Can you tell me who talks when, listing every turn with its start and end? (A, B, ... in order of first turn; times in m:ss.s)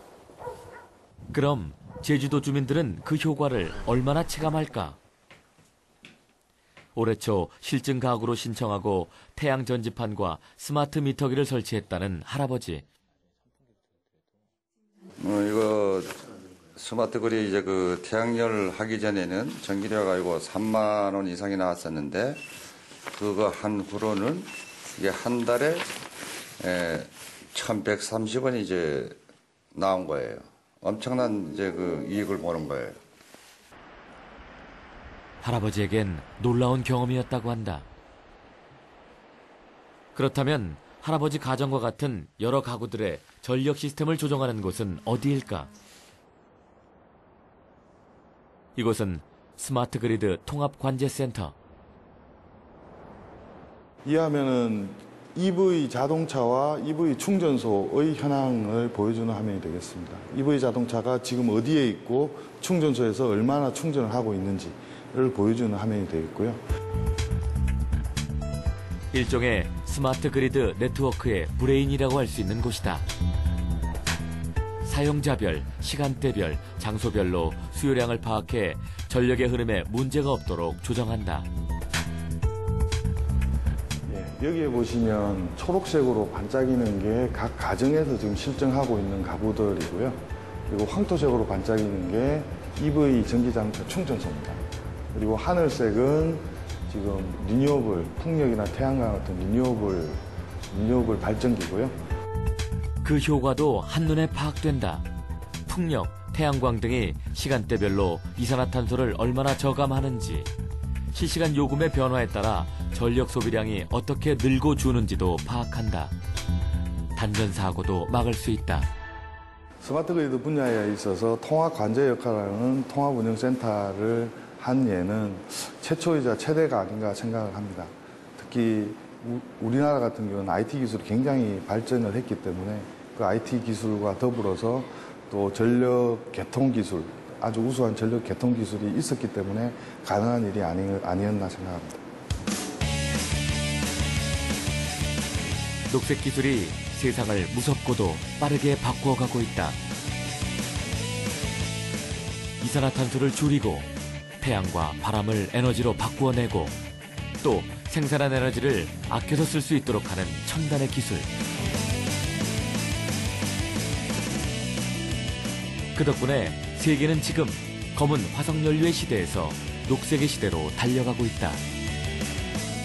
0:01.3-0:05.0 A
0:06.9-0:12.8 A
0:15.2-0:16.2 B
0:16.7-0:22.4 B
0:23.1-0:25.9 B
0:26.6-0:29.2 B
0:29.7-0:33.0 B
0:35.4-0:37.9 A
0:40.1-0:45.7 A
0:48.8-0:51.5 A
0:54.0-1:06.6 C
1:09.1-1:13.0 A
1:14.8-1:21.5 A
1:24.1-1:34.6 C
1:35.1-1:41.9 C
1:43.0-1:45.0 A
1:45.7-1:50.5 A
1:51.1-1:56.1 A
1:57.1-1:58.9 A
1:59.8-2:22.0 C
2:25.9-2:29.8 A
2:32.6-2:36.8 A
2:37.4-2:41.3 A
2:45.9-2:51.6 A